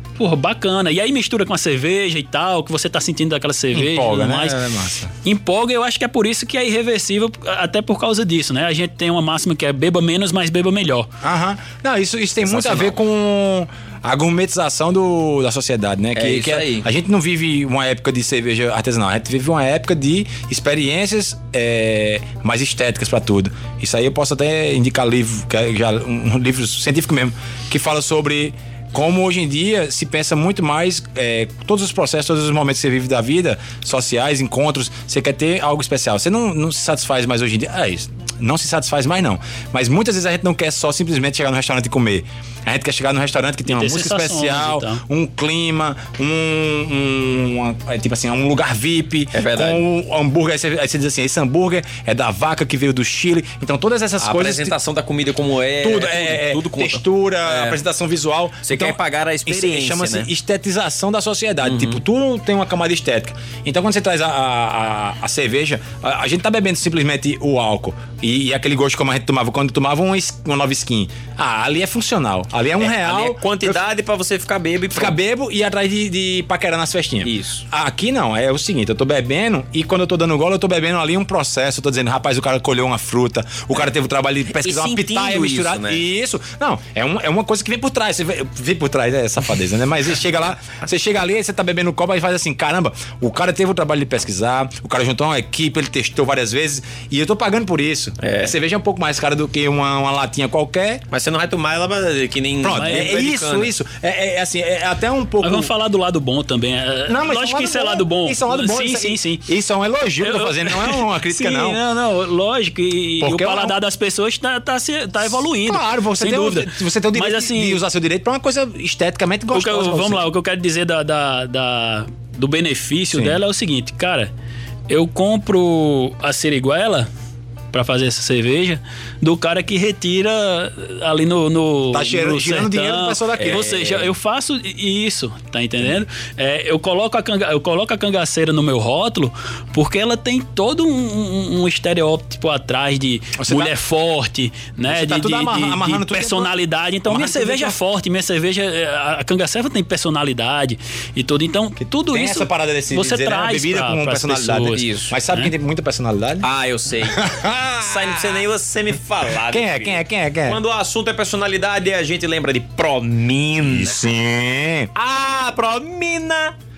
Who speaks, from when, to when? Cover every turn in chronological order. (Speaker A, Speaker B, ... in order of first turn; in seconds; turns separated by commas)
Speaker A: 0.2-4.6, Speaker B: 3.7-5.1, Speaker A: 5.2-11.1, Speaker B: 11.2-54.7, Speaker C: 12.4-13.0, Speaker C: 16.1-16.9, Speaker A: 43.7-45.0, Speaker C: 49.3-49.8, Speaker C: 54.2-57.8, Speaker B: 55.8-73.8, Speaker C: 58.6-60.3, Speaker C: 61.6-62.0, Speaker C: 72.8-75.2, Speaker B: 74.9-101.0, Speaker C: 77.2-77.6, Speaker C: 84.5-86.0, Speaker C: 98.2-98.5, Speaker C: 101.1-103.8, Speaker B: 102.6-105.7, Speaker A: 102.8-103.1, Speaker A: 105.4-109.5, Speaker B: 107.1-111.8, Speaker A: 110.2-117.8, Speaker B: 113.2-113.8, Speaker B: 115.2-120.2, Speaker A: 119.5-124.3, Speaker B: 123.1-123.4, Speaker A: 124.9-127.1, Speaker A: 127.7-155.5, Speaker B: 131.9-133.6, Speaker C: 133.4-134.1, Speaker B: 143.4-143.7, Speaker B: 144.9-146.5, Speaker B: 147.1-147.8, Speaker B: 152.1-156.5, Speaker C: 154.7-155.2, Speaker C: 156.4-157.3, Speaker B: 157.1-158.4, Speaker C: 157.8-164.1, Speaker B: 159.5-160.6, Speaker B: 163.6-164.9, Speaker C: 164.9-166.6